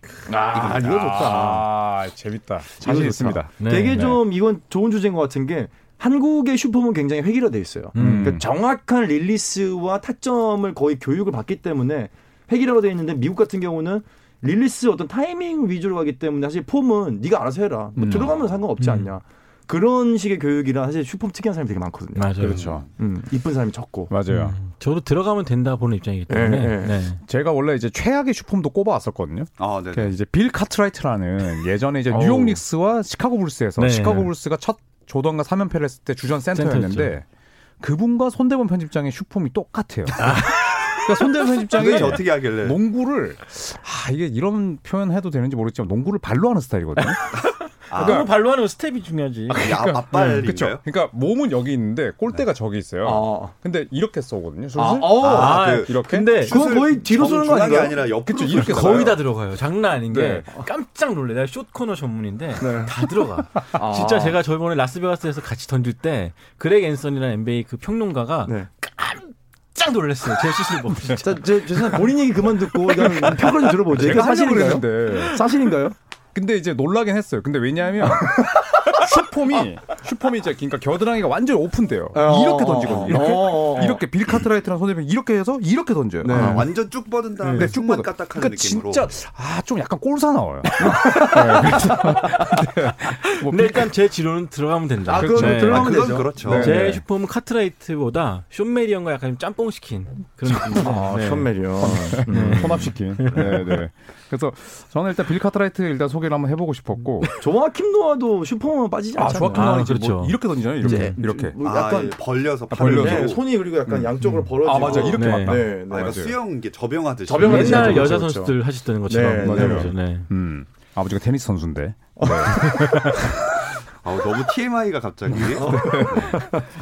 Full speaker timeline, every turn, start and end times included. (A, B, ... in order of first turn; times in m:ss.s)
0:00.3-0:01.7 A
0:00.5-0:04.2 B
0:02.8-0:24.1 A
0:03.6-0:04.1 C
0:07.9-0:08.4 C
0:08.0-0:08.4 B
0:18.0-0:18.4 B
0:18.8-0:19.1 C
0:22.1-0:22.8 C
0:22.4-0:22.8 B
0:22.6-0:22.8 D
0:24.1-0:24.6 B
0:24.3-0:27.2 C
0:26.3-0:27.0 A
0:27.2-0:37.2 B
0:29.6-0:30.1 D
0:32.2-0:32.5 C
0:33.8-0:34.3 C
0:36.5-0:37.1 C
0:37.8-0:47.3 B
0:40.2-0:41.0 C
0:41.7-0:42.8 D
0:47.0-0:50.4 C
0:47.9-0:48.3 D
0:48.0-0:48.3 B
0:49.5-0:56.3 B
0:49.5-0:50.8 D
0:53.0-0:53.5 A
0:54.7-0:55.6 A
0:55.2-0:59.2 D
0:55.2-0:56.6 C
0:56.5-0:58.1 A
0:58.3-0:59.2 B
0:58.5-1:12.0 C
1:00.1-1:00.4 B
1:02.6-1:02.9 A
1:03.7-1:04.4 A
1:11.1-1:16.0 A
1:12.9-1:15.4 B
1:16.3-1:26.6 B
1:18.2-1:18.8 A
1:22.1-1:24.0 A
1:22.8-1:23.2 D
1:26.2-1:26.7 A
1:26.3-1:29.1 D
1:26.4-1:26.6 C
1:27.4-1:27.7 C
1:27.5-1:33.9 B
1:30.8-1:32.5 A
1:33.2-1:43.8 C
1:35.1-1:36.9 A
1:35.1-1:37.0 B
1:35.4-1:36.8 D
1:40.5-1:41.0 B
1:40.7-1:42.9 A
1:41.8-1:47.3 B
1:47.3-1:49.8 A
1:49.1-1:51.6 B
1:49.5-1:51.2 C
1:50.8-1:52.2 A
1:51.6-1:53.4 D
1:52.7-1:56.4 B
1:52.8-1:56.2 A
1:54.2-1:54.4 C
1:54.7-1:55.1 D
1:55.1-1:55.7 C
1:55.9-1:58.1 D
1:57.2-1:58.6 A
1:57.4-2:00.3 C
1:57.4-1:58.1 B
1:59.1-1:59.9 A
1:59.4-2:03.2 B
2:02.2-2:03.2 A
2:02.5-2:03.2 C
2:04.0-2:06.6 D
2:05.3-2:06.4 B
2:05.5-2:06.6 A